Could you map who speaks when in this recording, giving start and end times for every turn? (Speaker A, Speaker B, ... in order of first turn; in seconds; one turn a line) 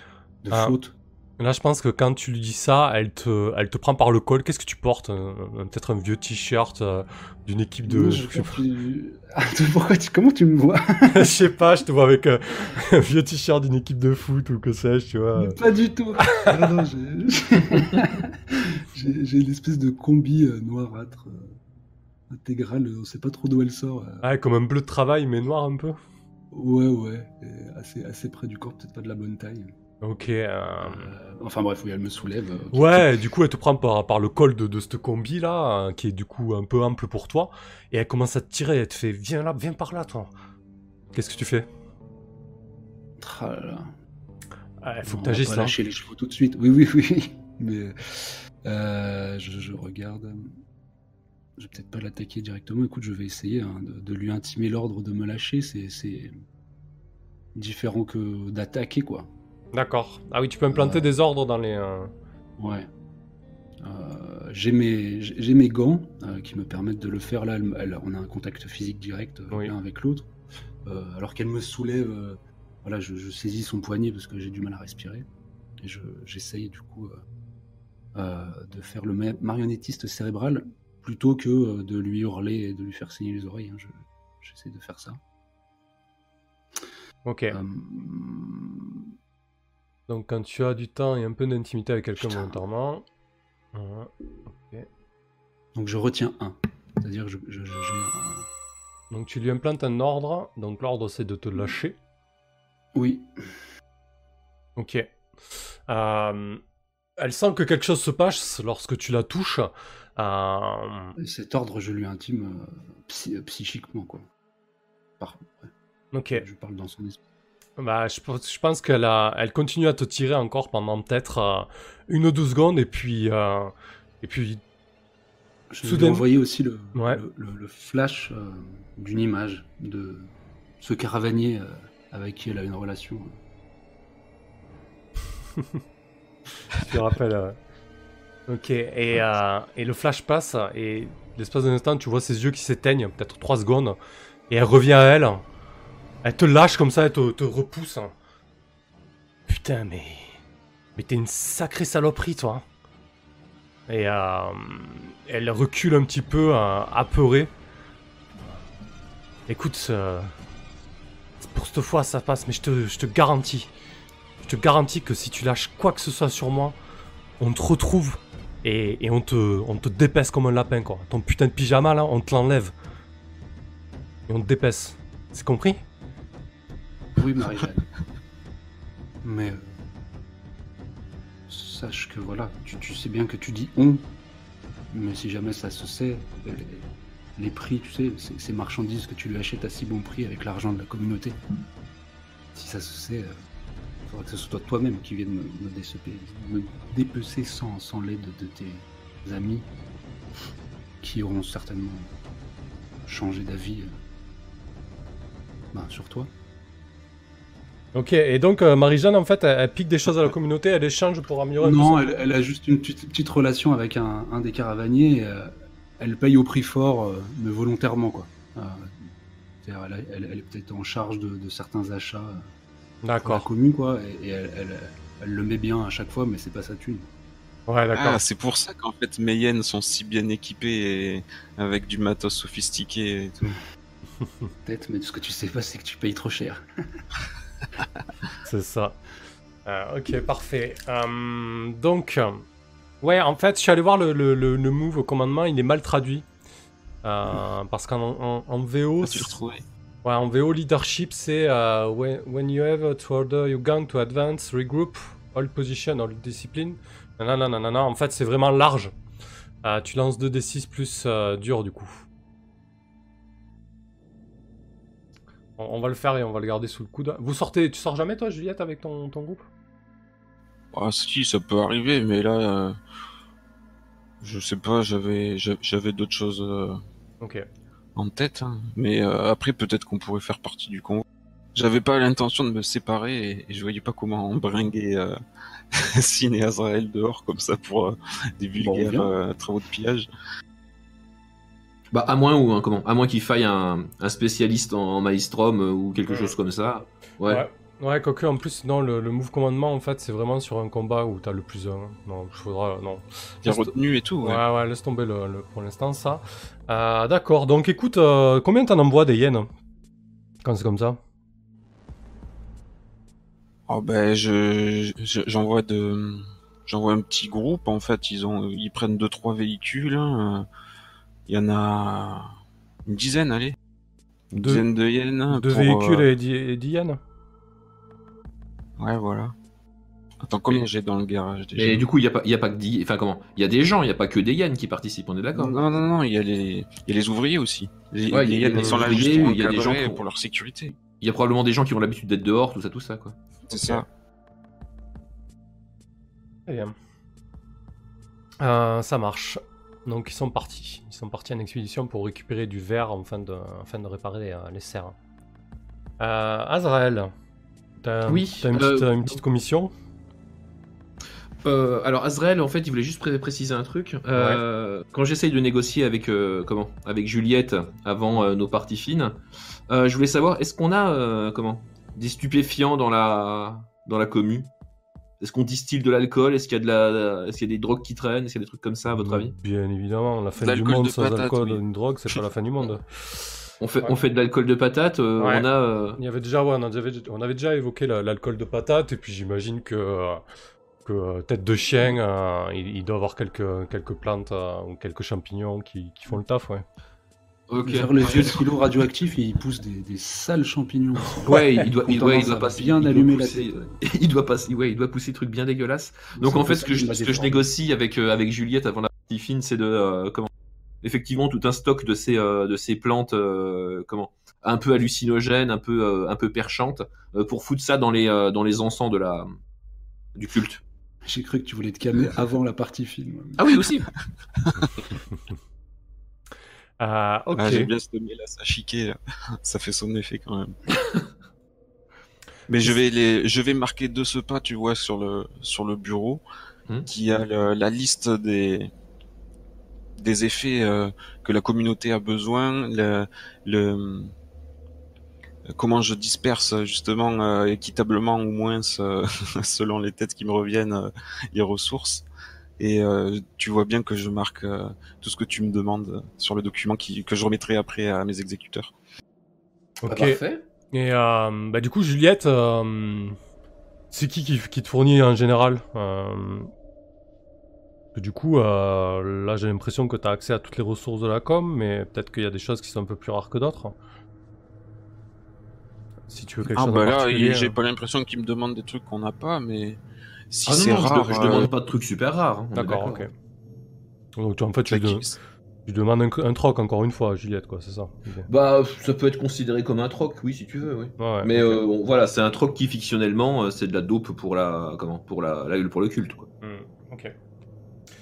Speaker A: 0.4-0.9
Speaker B: 0.5-0.8
Speaker B: 1.4-8.6
Speaker A: 7.9-11.4
Speaker B: 11.1-15.6
Speaker A: 15.3-21.6
Speaker B: 16.3-16.6
Speaker A: 22.3-24.2
Speaker B: 24.2-26.0
Speaker A: 26.5-29.7
Speaker B: 30.0-31.1
Speaker A: 30.8-33.2
Speaker B: 32.7-40.3
Speaker B: 41.1-41.6
Speaker A: 43.2-43.9
Speaker B: 44.8-45.7
Speaker A: 45.0-50.5
Speaker A: 51.6-56.3
Speaker A: 57.5-59.3
Speaker B: 59.7-62.1
Speaker A: 60.7-61.1
Speaker A: 62.6-62.9
Speaker A: 63.8-70.3
Speaker A: 70.8-75.3
Speaker A: 75.8-77.2
Speaker A: 78.1-85.2
Speaker B: 87.2-87.6
Speaker A: 87.5-89.1
Speaker B: 90.1-93.0
Speaker A: 92.2-92.6
Speaker B: 93.7-94.9
Speaker A: 95.7-98.5
Speaker B: 99.1-102.0
Speaker A: 102.9-103.3
Speaker B: 104.8-105.1
Speaker B: 105.9-106.6
Speaker B: 107.2-111.2
Speaker A: 111.2-114.3
Speaker A: 115.2-115.7
Speaker B: 116.1-116.4
Speaker A: 116.3-117.2
Speaker B: 117.8-124.6
Speaker A: 125.7-133.4
Speaker B: 125.8-126.2
Speaker B: 126.9-127.2
Speaker B: 136.7-137.6
Speaker B: 138.5-144.0
Speaker B: 144.5-145.4
Speaker B: 146.2-148.1
Speaker B: 149.5-150.3
Speaker B: 150.9-152.6
Speaker B: 153.9-157.5
Speaker B: 159.5-160.3
Speaker B: 161.4-163.7
Speaker B: 164.4-166.8
Speaker B: 167.4-172.7
Speaker B: 174.3-175.8
Speaker A: 177.2-177.9
Speaker A: 179.2-179.8
Speaker A: 181.5-184.1
Speaker A: 184.9-191.4
Speaker A: 192.5-193.4
Speaker A: 194.1-199.7
Speaker A: 201.0-202.1
Speaker A: 203.0-203.9
Speaker A: 205.7-206.3
Speaker B: 207.9-212.2
Speaker A: 211.6-219.1
Speaker A: 219.6-222.4
Speaker B: 223.0-223.4
Speaker A: 223.2-227.1
Speaker B: 227.7-228.2
Speaker C: 227.9-233.6
Speaker B: 234.2-234.5
Speaker A: 234.7-237.0
Speaker B: 238.4-239.0
Speaker B: 239.7-242.4
Speaker B: 243.0-246.2
Speaker B: 247.0-249.4
Speaker C: 249.0-249.6
Speaker B: 250.0-258.9
Speaker B: 259.6-262.0
Speaker B: 265.6-269.4
Speaker C: 270.7-272.8
Speaker C: 274.2-276.8
Speaker B: 277.2-277.4
Speaker C: 277.9-285.2
Speaker C: 285.7-290.1
Speaker A: 288.6-289.1
Speaker D: 291.9-297.4
Speaker B: 296.1-296.4
Speaker B: 297.2-303.7
Speaker C: 303.4-304.4
Speaker B: 304.2-309.5
Speaker B: 310.4-311.0
Speaker C: 313.7-320.4
Speaker C: 321.3-322.3
Speaker C: 322.9-323.6
Speaker C: 324.3-326.1
Speaker B: 324.3-324.6
Speaker B: 325.3-327.0
Speaker C: 328.8-329.3
Speaker C: 330.2-331.9
Speaker D: 331.6-335.6
Speaker C: 335.3-340.7
Speaker D: 338.1-340.0
Speaker B: 338.6-338.9
Speaker D: 340.9-343.8
Speaker C: 343.5-343.9
Speaker B: 346.5-346.7
Speaker B: 348.4-354.9
Speaker B: 356.0-357.1
Speaker B: 357.8-359.7
Speaker D: 358.1-359.2
Speaker D: 361.4-369.2
Speaker B: 364.1-364.4
Speaker D: 369.7-374.5
Speaker D: 375.2-379.3
Speaker B: 378.9-382.9
Speaker C: 380.4-381.6
Speaker D: 383.6-386.0
Speaker B: 385.2-385.4
Speaker B: 386.0-390.2
Speaker B: 390.8-396.6
Speaker D: 397.5-398.4
Speaker A: 397.6-403.7
Speaker D: 401.2-410.3
Speaker A: 406.1-407.4
Speaker D: 410.8-419.3
Speaker D: 420.1-420.6
Speaker A: 421.1-423.6
Speaker D: 423.4-423.9
Speaker B: 426.8-427.7
Speaker C: 427.3-430.6
Speaker C: 432.5-436.2
Speaker C: 436.9-438.7
Speaker C: 439.9-444.1
Speaker C: 445.5-452.0
Speaker C: 452.6-458.7
Speaker B: 459.8-460.2
Speaker D: 459.9-460.4
Speaker B: 460.7-463.1
Speaker B: 463.9-466.5
Speaker B: 467.9-473.8
Speaker B: 476.1-477.5
Speaker C: 476.5-481.5
Speaker D: 480.4-483.0
Speaker B: 482.5-483.1
Speaker B: 484.2-485.1
Speaker C: 484.7-485.2
Speaker B: 485.6-488.3
Speaker D: 488.3-496.3
Speaker B: 491.0-491.6
Speaker B: 496.4-497.1